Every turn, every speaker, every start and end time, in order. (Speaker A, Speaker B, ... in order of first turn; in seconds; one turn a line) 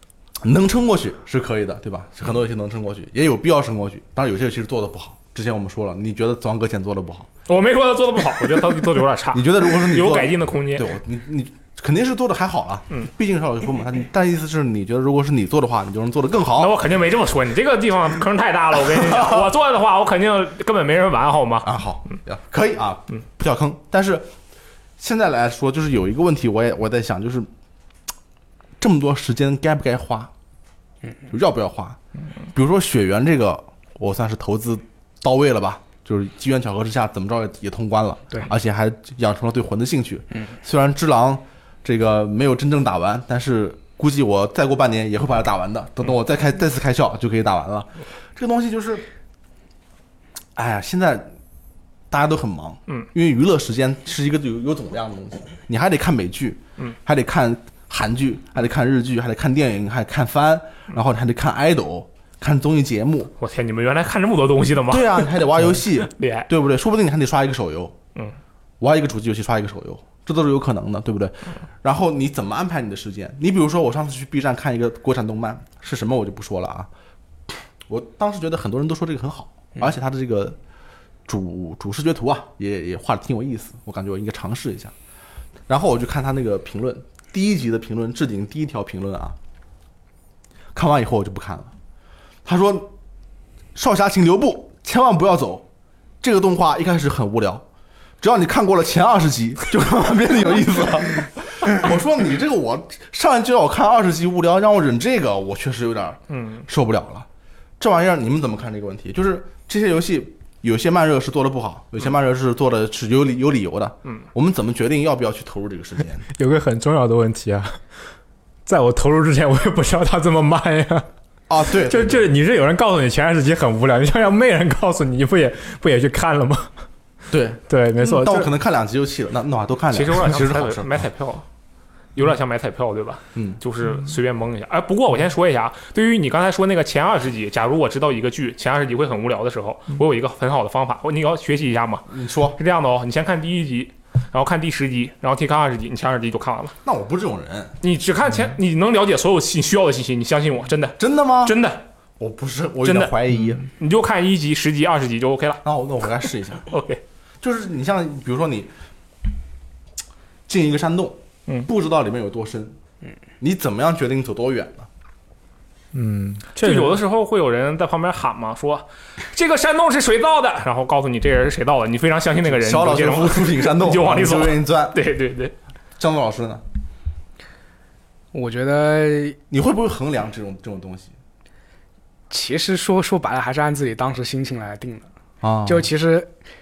Speaker A: 0.4-7.3
Speaker B: 7.5-10.9
Speaker A: 9.3-16.8
Speaker B: 16.6-21.7
Speaker A: 18.9-19.5
Speaker A: 21.6-24.3
Speaker A: 25.0-27.5
Speaker A: 28.8-30.3
Speaker A: 31.3-32.0
Speaker A: 32.5-49.0
Speaker A: 50.5-51.3
Speaker A: 52.1-63.3
Speaker B: 63.4-66.5
Speaker A: 64.9-68.0
Speaker A: 68.8-76.9
Speaker A: 77.9-80.6
Speaker A: 81.3-84.9
Speaker A: 85.7-89.4
Speaker A: 90.7-91.7
Speaker A: 92.5-92.9
Speaker A: 93.7-95.7
Speaker A: 96.2-97.6
Speaker A: 98.2-107.3
Speaker B: 106.3-106.6
Speaker A: 107.8-116.3
Speaker C: 116.4-117.8
Speaker C: 118.7-121.1
Speaker A: 121.5-122.3
Speaker C: 121.7-126.7
Speaker A: 127.3-130.9
Speaker C: 127.7-128.5
Speaker B: 129.9-131.4
Speaker B: 132.1-146.8
Speaker A: 133.4-133.6
Speaker A: 142.1-142.6
Speaker A: 146.8-147.7
Speaker B: 147.8-151.8
Speaker A: 151.0-151.6
Speaker A: 152.2-153.6
Speaker B: 152.8-153.2
Speaker B: 153.7-155.6
Speaker A: 155.6-156.7
Speaker B: 156.7-157.0
Speaker A: 157.4-158.7
Speaker A: 160.5-162.8
Speaker A: 163.4-164.9
Speaker C: 165.9-167.0
Speaker B: 166.6-175.5
Speaker A: 172.4-175.0
Speaker A: 176.0-176.6
Speaker D: 178.3-179.4
Speaker A: 179.5-181.1
Speaker D: 182.3-185.1
Speaker A: 185.4-185.9
Speaker D: 185.6-186.3